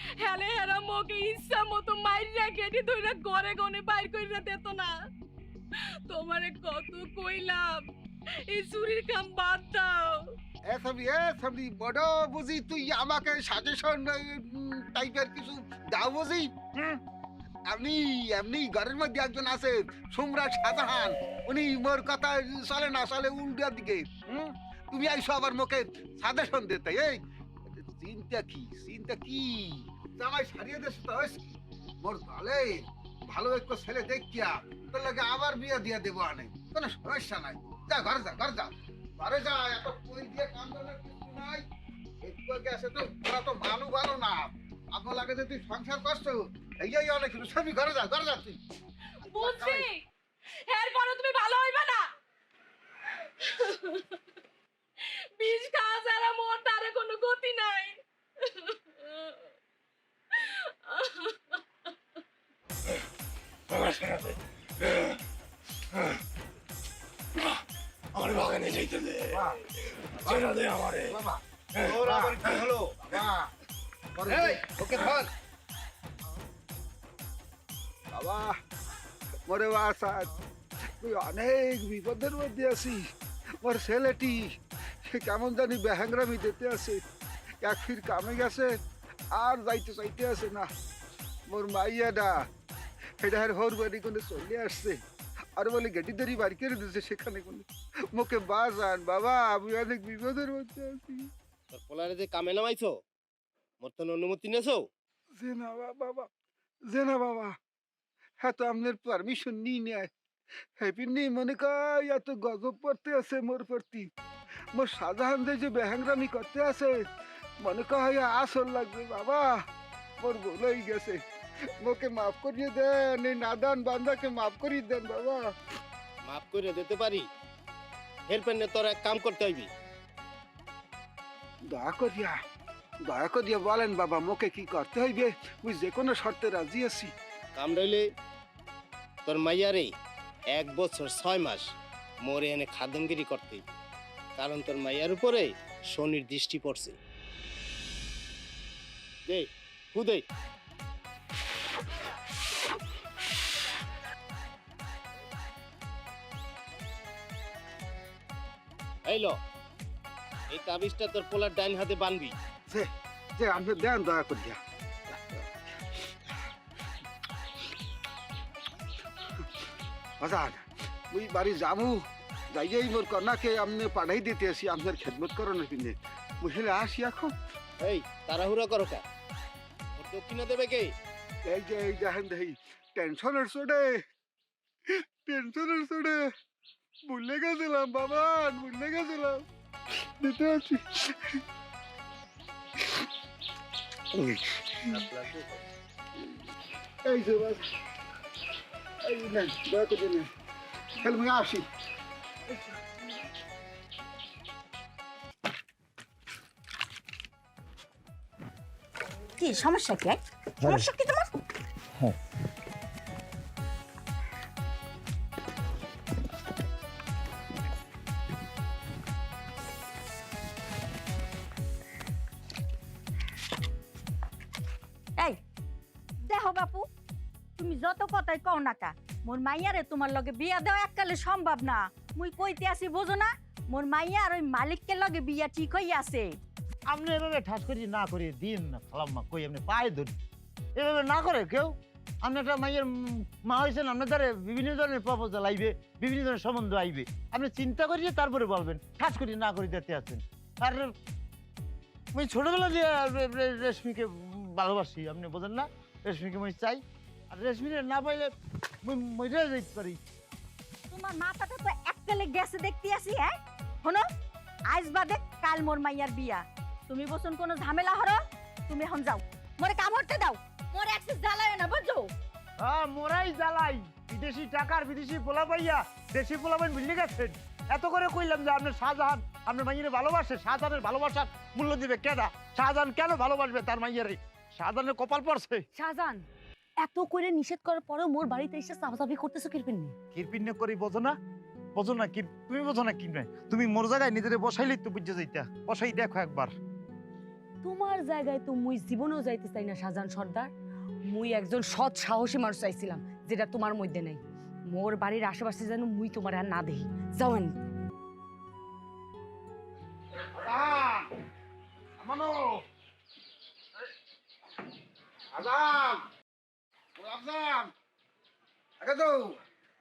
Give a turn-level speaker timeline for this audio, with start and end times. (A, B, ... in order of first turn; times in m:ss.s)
0:00.2-0:05.0 A
0:05.8-0:07.8 A
0:08.5-0:10.2 A
0:10.7-0:17.0 B
0:17.7-0:27.2 B
0:27.7-0:41.6 B
0:42.2-0:48.6 B
0:49.2-0:50.0 A
0:49.3-0:49.9 B
0:50.7-0:52.1 A
0:53.4-0:54.2 A
0:55.4-0:59.4 A
1:00.3-1:01.6 A
1:09.3-1:12.4 B
1:12.0-1:12.8 C
1:13.0-1:13.5 B
1:14.2-1:15.3 B
1:18.1-1:18.6 B
1:19.5-1:20.3 B
1:21.0-1:23.1 B
1:23.6-1:24.5 B
1:25.0-1:27.0 B
1:27.6-1:28.7 B
1:29.3-1:30.7 B
1:31.5-1:32.4 B
1:33.2-1:35.0 B
1:35.6-1:41.3 B
1:41.7-1:43.0 C
1:43.8-1:44.8 C
1:45.4-1:46.3 B
1:46.9-1:47.6 B
1:48.4-1:50.1 B
1:50.8-1:54.1 B
1:54.7-1:57.0 B
1:57.6-1:59.6 B
2:00.2-2:01.2 B
2:01.8-2:05.5 B
2:06.3-2:07.3 C
2:08.3-2:09.7 C
2:11.7-2:12.4 B
2:13.0-2:17.1 B
2:17.6-2:18.0 C
2:19.3-2:19.9 C
2:20.5-2:21.7 C
2:22.2-2:23.6 C
2:24.4-2:27.0 C
2:29.3-2:30.2 C
2:39.1-2:39.4 C
2:40.5-2:42.4 C
2:42.7-2:46.1 B
2:50.2-2:57.3 B
2:57.8-2:59.0 C
3:00.0-3:00.9 C
3:01.4-3:04.0 B
3:04.9-3:06.2 B
3:07.1-3:09.4 B
3:10.0-3:11.4 B
3:14.1-3:15.0 B
3:14.9-3:15.6 C
3:17.0-3:17.6 B
3:19.0-3:20.3 B
3:20.9-3:21.6 B
3:29.4-3:31.3 D
3:46.2-3:46.9 D
3:47.6-3:56.4 D
3:56.9-4:00.1 E
4:00.8-4:10.9 E
4:12.1-4:18.3 E
4:18.8-4:20.0 E
4:20.9-4:24.0 D
4:24.7-4:32.1 D
4:32.6-4:45.6 E
4:45.7-4:46.3 F
4:46.8-4:50.0 F
4:50.1-4:51.2 E
4:51.8-4:56.5 E
4:57.6-5:00.5 F
5:01.1-5:07.6 F
5:10.2-5:11.1 B
5:12.0-5:12.6 B
5:15.3-5:16.1 B
5:17.0-5:17.7 B
5:18.8-5:19.4 B